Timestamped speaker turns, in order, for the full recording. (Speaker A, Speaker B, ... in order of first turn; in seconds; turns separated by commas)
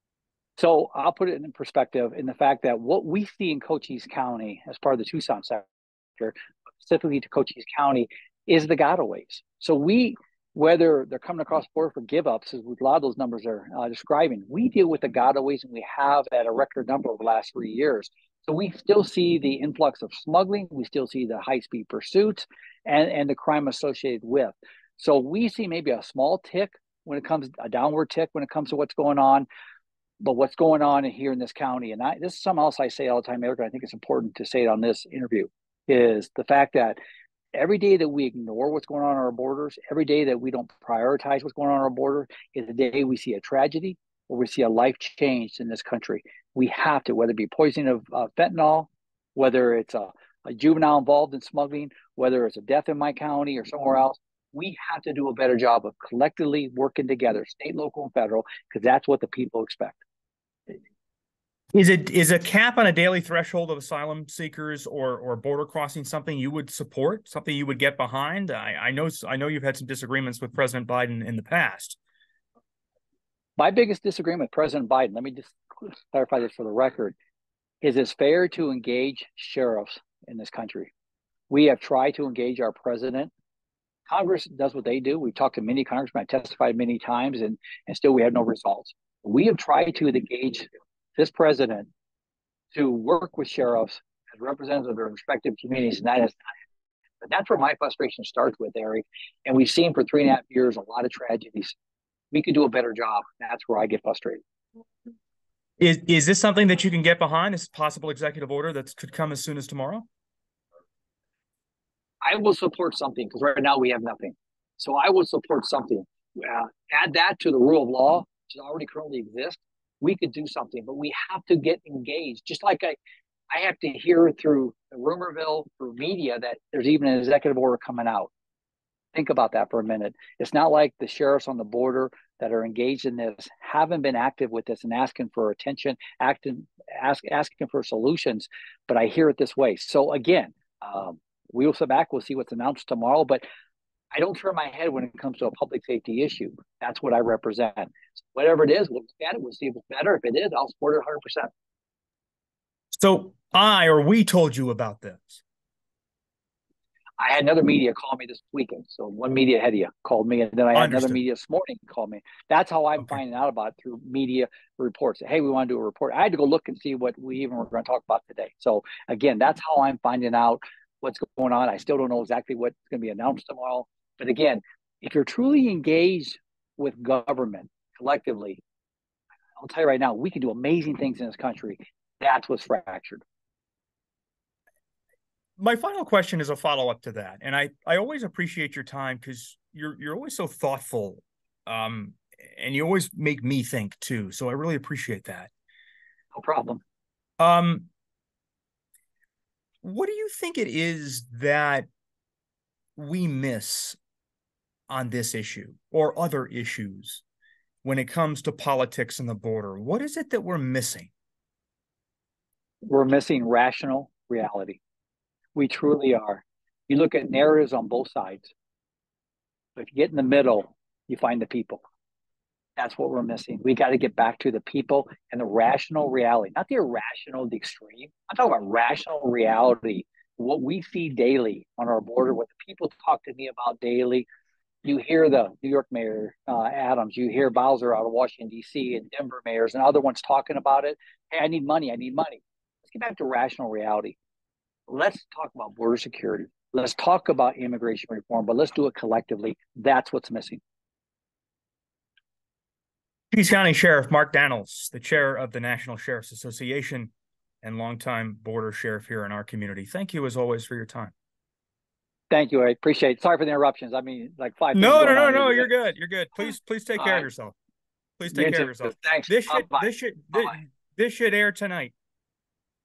Speaker A: 0.6-5.7, Speaker A: 6.2-29.5, Speaker A: 30.2-37.0, Speaker A: 37.5-60.0, Speaker B: 61.7-72.0, Speaker A: 73.6-77.2, Speaker A: 77.8-80.9, Speaker A: 81.5-83.3, Speaker A: 84.1-91.9, Speaker A: 92.7-96.5, Speaker A: 97.2-101.8, Speaker A: 102.3-104.4, Speaker B: 105.8-110.1, Speaker A: 112.2-123.0, Speaker A: 123.5-128.3, Speaker A: 129.1-143.4, Speaker A: 144.1-151.5, Speaker B: 152.9-155.4, Speaker A: 157.2-178.6, Speaker B: 160.8-161.2, Speaker A: 179.6-183.2, Speaker B: 185.6-195.5, Speaker A: 196.3-196.8, Speaker B: 197.4-197.9, Speaker B: 199.8-201.9, Speaker B: 203.0-204.0, Speaker B: 204.9-207.2, Speaker B: 207.8-211.1, Speaker A: 212.9-214.8, Speaker A: 215.6-218.5, Speaker A: 219.8-221.8, Speaker A: 222.8-234.3, Speaker A: 234.8-244.2, Speaker A: 244.9-250.6, Speaker B: 253.3-257.1, Speaker B: 257.6-261.1, Speaker A: 262.3-265.7, Speaker B: 264.7-267.6, Speaker A: 267.0-267.3, Speaker B: 268.2-271.9, Speaker A: 268.3-270.6